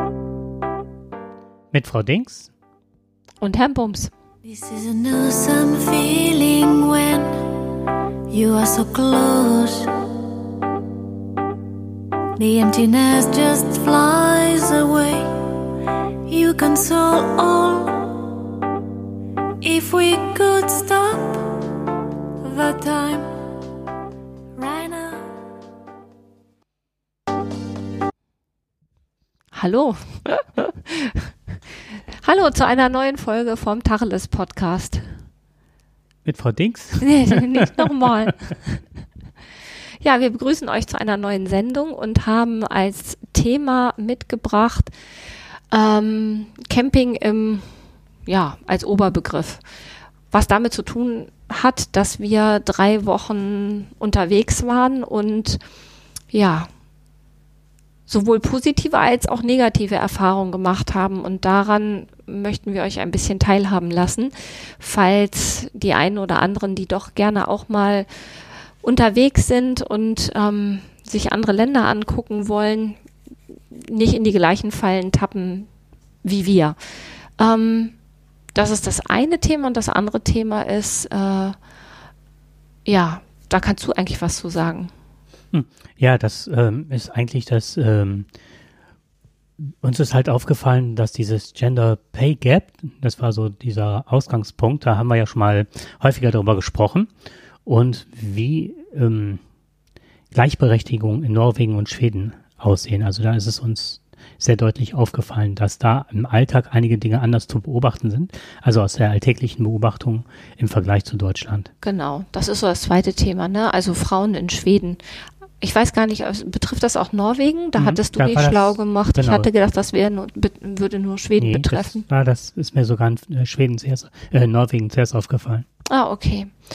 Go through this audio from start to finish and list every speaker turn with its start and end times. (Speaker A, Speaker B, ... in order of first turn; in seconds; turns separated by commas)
Speaker A: 1.7-2.5, Speaker B: 3.4-4.1, Speaker C: 4.4-7.5, Speaker C: 8.3-10.0, Speaker C: 12.4-15.6, Speaker C: 16.3-18.4, Speaker C: 19.6-21.6, Speaker C: 22.4-23.4, Speaker C: 24.6-25.3, Speaker B: 29.5-31.3, Speaker B: 32.2-35.1, Speaker A: 36.2-38.1, Speaker B: 37.0-38.8, Speaker B: 40.0-44.9, Speaker B: 45.7-47.7, Speaker B: 48.2-49.6, Speaker B: 50.3-55.6, Speaker B: 56.3-56.7, Speaker B: 58.1-68.1, Speaker B: 68.8-73.0, Speaker B: 73.7-75.7, Speaker B: 76.2-76.8, Speaker B: 77.4-77.9, Speaker B: 78.5-81.6, Speaker B: 82.8-84.9, Speaker A: 85.5-88.3, Speaker A: 89.6-97.1, Speaker A: 97.6-99.4, Speaker A: 100.3-111.7, Speaker B: 111.8-115.0, Speaker B: 115.6-122.0, Speaker A: 117.8-119.5, Speaker A: 121.4-125.7, Speaker B: 125.9-126.5